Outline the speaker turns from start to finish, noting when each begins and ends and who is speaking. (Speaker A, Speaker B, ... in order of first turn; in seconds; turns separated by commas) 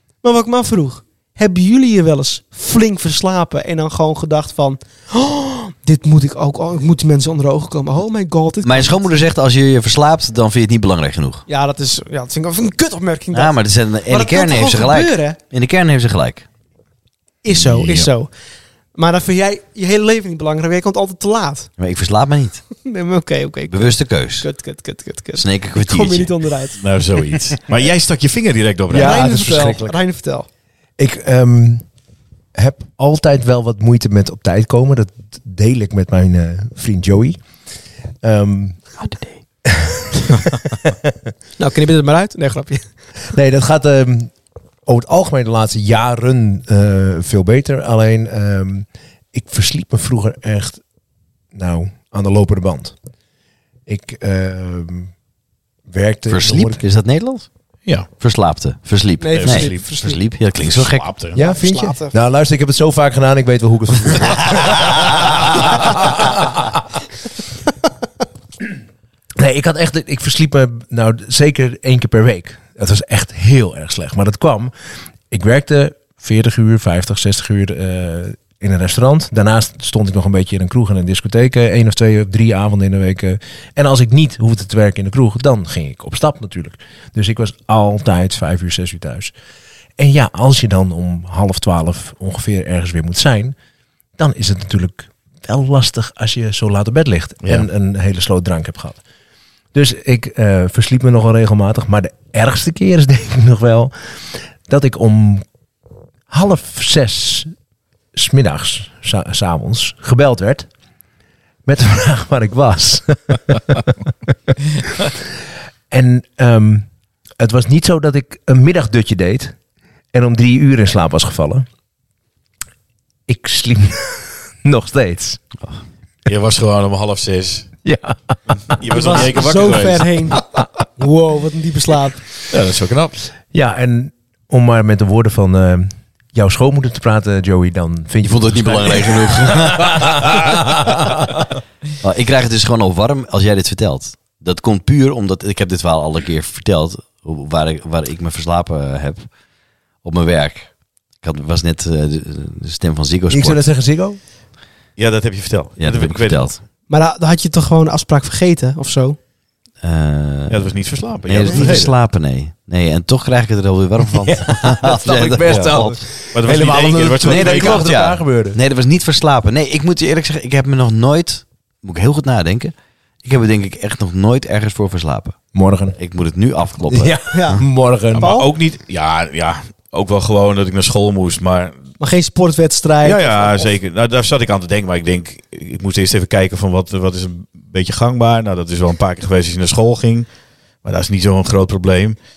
Speaker A: 0.2-9.1, Speaker B: 8.6-11.4, Speaker A: 11.5-15.4, Speaker B: 13.3-16.4, Speaker A: 17.4-18.3, Speaker C: 17.5-18.1, Speaker A: 18.9-21.7, Speaker B: 21.8-22.6, Speaker A: 22.8-26.8, Speaker B: 23.7-24.4, Speaker B: 25.4-26.3, Speaker C: 26.8-29.2, Speaker D: 28.9-29.9, Speaker A: 28.9-30.5, Speaker D: 31.0-31.8, Speaker D: 32.5-37.4, Speaker D: 38.2-38.9, Speaker D: 39.6-41.1, Speaker A: 41.6-42.9, Speaker D: 43.3-44.3, Speaker D: 44.9-50.8, Speaker D: 51.5-52.9, Speaker D: 53.9-55.1, Speaker D: 55.9-56.8, Speaker B: 56.3-57.5, Speaker B: 58.2-61.1, Speaker A: 59.2-60.2, Speaker C: 59.3-59.9, Speaker C: 60.6-61.4, Speaker D: 61.3-66.8, Speaker A: 61.4-62.1, Speaker D: 69.4-74.7, Speaker D: 75.3-89.3, Speaker D: 90.0-93.5, Speaker D: 94.2-99.0, Speaker D: 99.7-103.9, Speaker D: 104.7-105.4, Speaker D: 106.3-107.5, Speaker D: 108.1-110.7, Speaker D: 111.6-114.3, Speaker D: 115.9-116.9, Speaker D: 117.4-119.5, Speaker D: 120.1-121.7, Speaker D: 123.3-125.4, Speaker C: 126.2-127.7, Speaker D: 127.8-128.4, Speaker C: 128.7-130.3, Speaker A: 128.9-130.4, Speaker A: 131.0-132.2, Speaker C: 132.5-133.1, Speaker D: 133.5-141.4, Speaker B: 138.2-140.3, Speaker B: 142.0-149.3, Speaker B: 150.0-153.6, Speaker D: 153.3-154.2, Speaker C: 155.0-156.5, Speaker B: 155.8-156.6, Speaker A: 156.9-159.2, Speaker B: 159.8-160.7, Speaker C: 160.5-161.9, Speaker B: 161.3-166.0, Speaker D: 164.1-168.6, Speaker C: 165.4-165.8, Speaker C: 166.3-167.9, Speaker B: 167.2-175.4, Speaker D: 175.5-175.9, Speaker B: 175.9-177.6, Speaker D: 176.9-178.3, Speaker A: 177.3-177.6, Speaker C: 178.1-181.8, Speaker A: 178.2-178.5, Speaker A: 182.0-183.7, Speaker C: 183.0-190.3, Speaker C: 190.8-192.2